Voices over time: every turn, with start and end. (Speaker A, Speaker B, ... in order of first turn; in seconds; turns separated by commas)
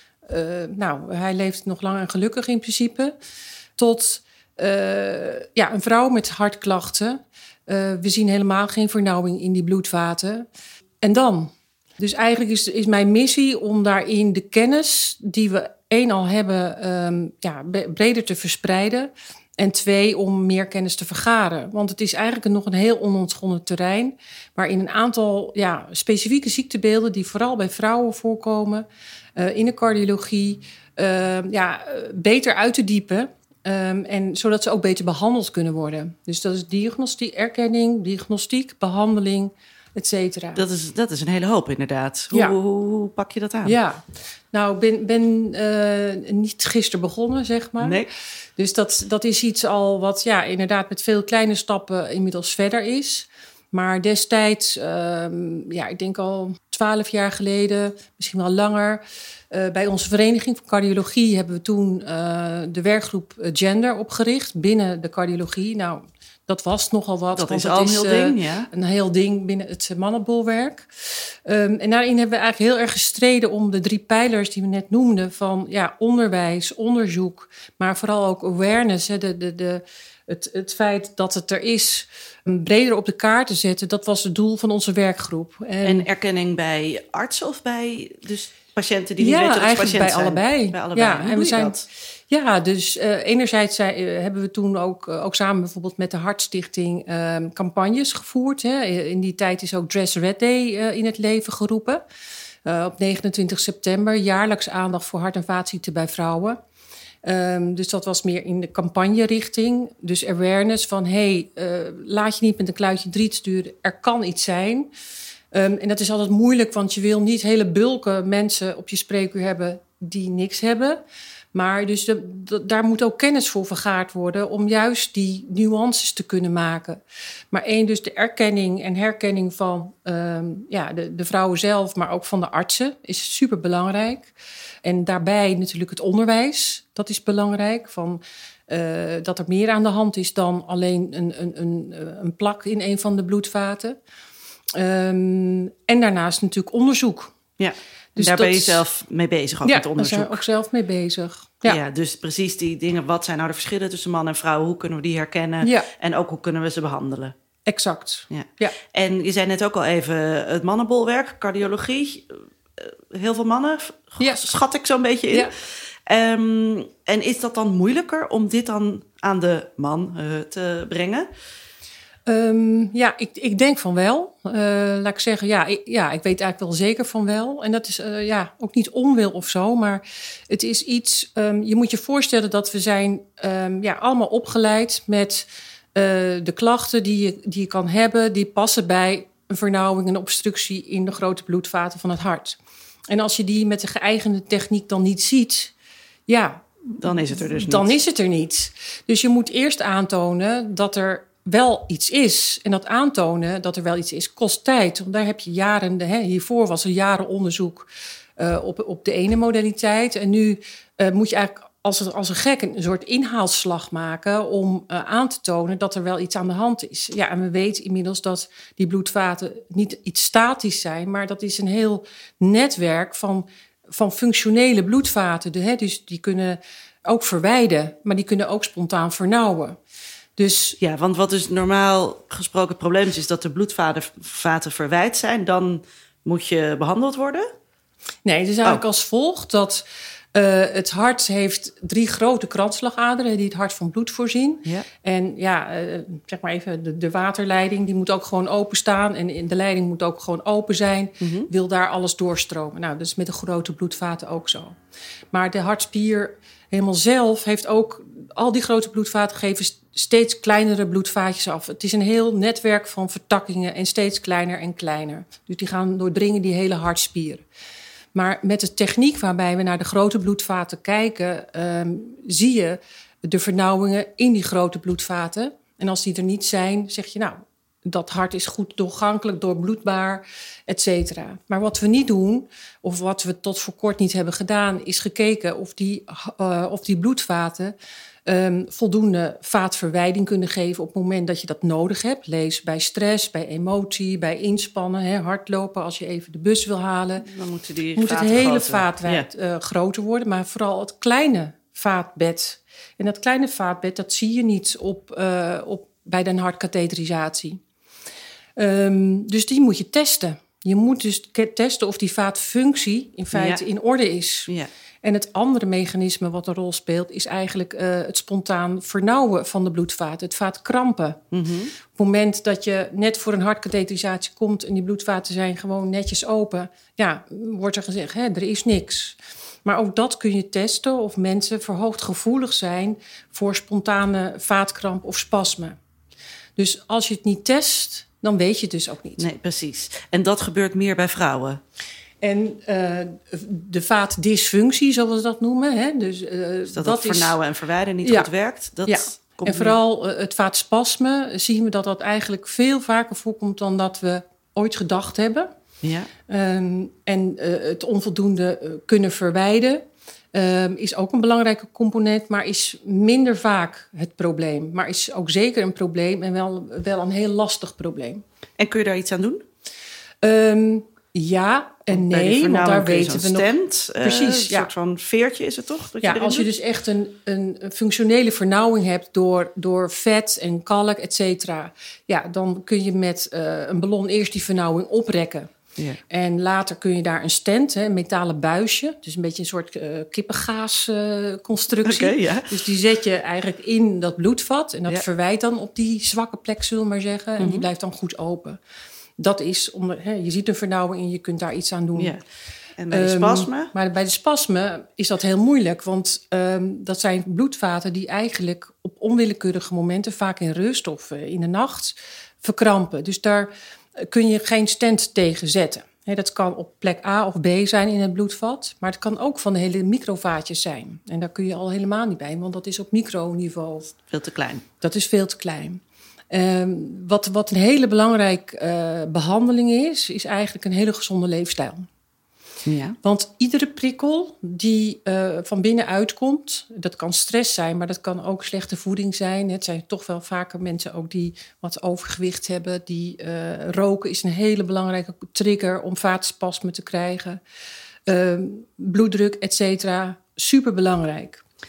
Speaker A: 0.3-3.1, Speaker A: 3.8-10.5, Speaker A: 11.0-40.6, Speaker B: 40.5-43.8, Speaker A: 43.6-44.0, Speaker A: 44.5-48.0, Speaker B: 47.8-48.1, Speaker A: 48.6-86.1, Speaker B: 67.3-68.7, Speaker B: 85.8-91.8, Speaker A: 89.2-91.8, Speaker A: 92.3-102.0, Speaker A: 102.6-106.6, Speaker A: 107.2-114.9, Speaker A: 115.5-121.0, Speaker A: 121.5-127.0, Speaker A: 127.5-134.3, Speaker A: 134.8-144.0, Speaker A: 144.7-147.3, Speaker B: 147.6-150.4, Speaker A: 148.1-148.8, Speaker A: 149.6-151.8, Speaker B: 151.6-157.3, Speaker A: 155.6-155.9, Speaker A: 157.7-158.8, Speaker B: 158.3-165.5, Speaker A: 164.2-164.4, Speaker B: 166.1-171.3, Speaker A: 172.3-192.6, Speaker A: 193.1-195.7, Speaker A: 196.3-229.8, Speaker B: 197.0-197.9, Speaker A: 230.4-230.8, Speaker B: 230.8-237.5, Speaker A: 238.2-254.8, Speaker B: 251.2-251.5, Speaker A: 255.3-267.4, Speaker A: 268.1-287.7, Speaker A: 288.2-297.2, Speaker B: 297.2-299.3, Speaker A: 297.9-307.6, Speaker A: 308.6-314.5, Speaker B: 313.3-313.6, Speaker A: 315.0-321.2, Speaker B: 321.3-321.7, Speaker A: 321.9-335.8, Speaker A: 336.6-339.3, Speaker B: 339.2-341.6, Speaker A: 342.2-347.4, Speaker B: 346.7-349.8, Speaker A: 348.0-348.3, Speaker A: 348.9-355.5, Speaker B: 355.8-356.1, Speaker A: 356.3-368.2, Speaker B: 368.6-369.4, Speaker A: 370.2-374.7, Speaker B: 371.9-376.5, Speaker A: 376.0-385.5, Speaker A: 386.1-398.6, Speaker B: 391.8-392.6, Speaker B: 397.4-397.6, Speaker A: 399.2-402.1, Speaker B: 401.9-402.2, Speaker B: 402.8-403.7, Speaker A: 402.9-423.9, Speaker B: 424.1-424.6, Speaker A: 424.8-431.9, Speaker B: 432.6-433.0, Speaker A: 433.0-447.4, Speaker A: 448.1-451.4